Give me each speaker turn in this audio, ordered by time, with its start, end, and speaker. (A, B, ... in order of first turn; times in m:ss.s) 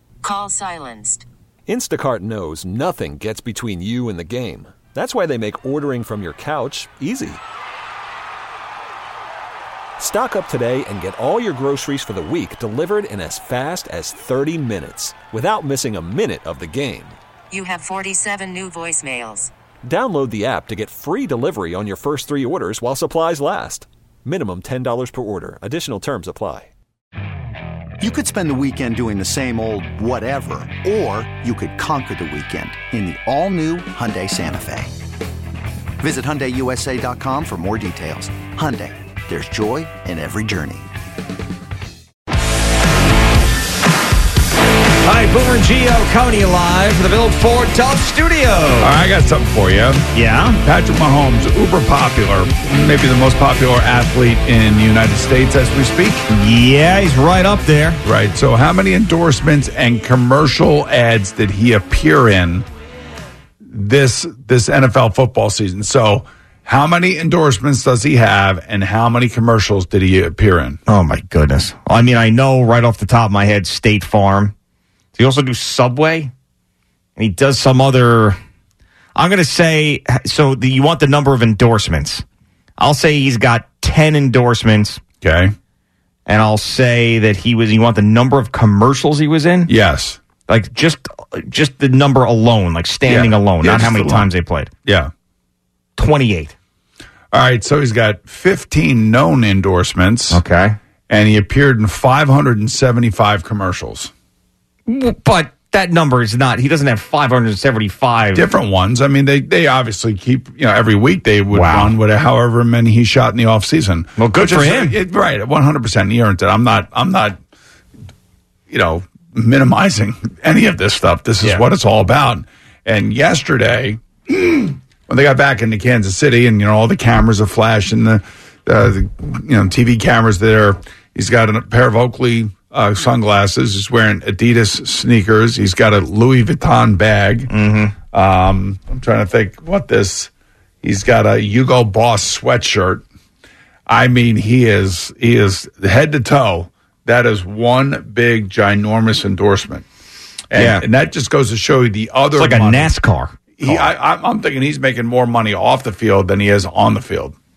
0:00.2-0:01.2 A
0:01.7-0:07.4 B
0:10.0-0:17.2 B
0:17.5-0:19.5 A
0:19.8-0:26.7 B
0:28.0-0:34.9 C
0:36.0-0:40.9 C
0:45.0-0:48.9 D
0:48.8-0:50.0 E
0:50.1-0:50.6 D
0:50.6-0:56.3 E
0:56.3-0:58.0 D
0:58.0-1:02.7 E
1:03.7-1:10.8 E
1:10.9-1:14.5 D
1:15.1-1:16.3 D
1:17.2-1:18.4 D
1:19.2-1:22.2 D
1:22.8-1:25.0 D
1:25.2-1:25.5 E
1:26.2-1:29.7 D
1:29.7-1:30.2 E
1:30.4-1:34.7 D
1:33.0-1:34.3 E
1:34.8-1:35.1 E
1:36.0-1:36.6 D
1:37.3-1:40.4 E
1:40.3-1:40.8 D
1:41.1-1:44.1 E
1:44.9-1:48.4 D
1:48.3-1:57.4 E
1:51.5-1:51.9 D
1:54.2-1:54.9 D
1:58.7-2:17.5 E
2:17.5-2:17.9 D
2:18.1-2:20.3 E
2:20.8-2:23.0 E
2:23.9-2:29.8 E
2:30.5-2:32.9 E
2:30.5-2:30.8 D
2:32.4-2:33.9 D
2:33.6-2:37.3 E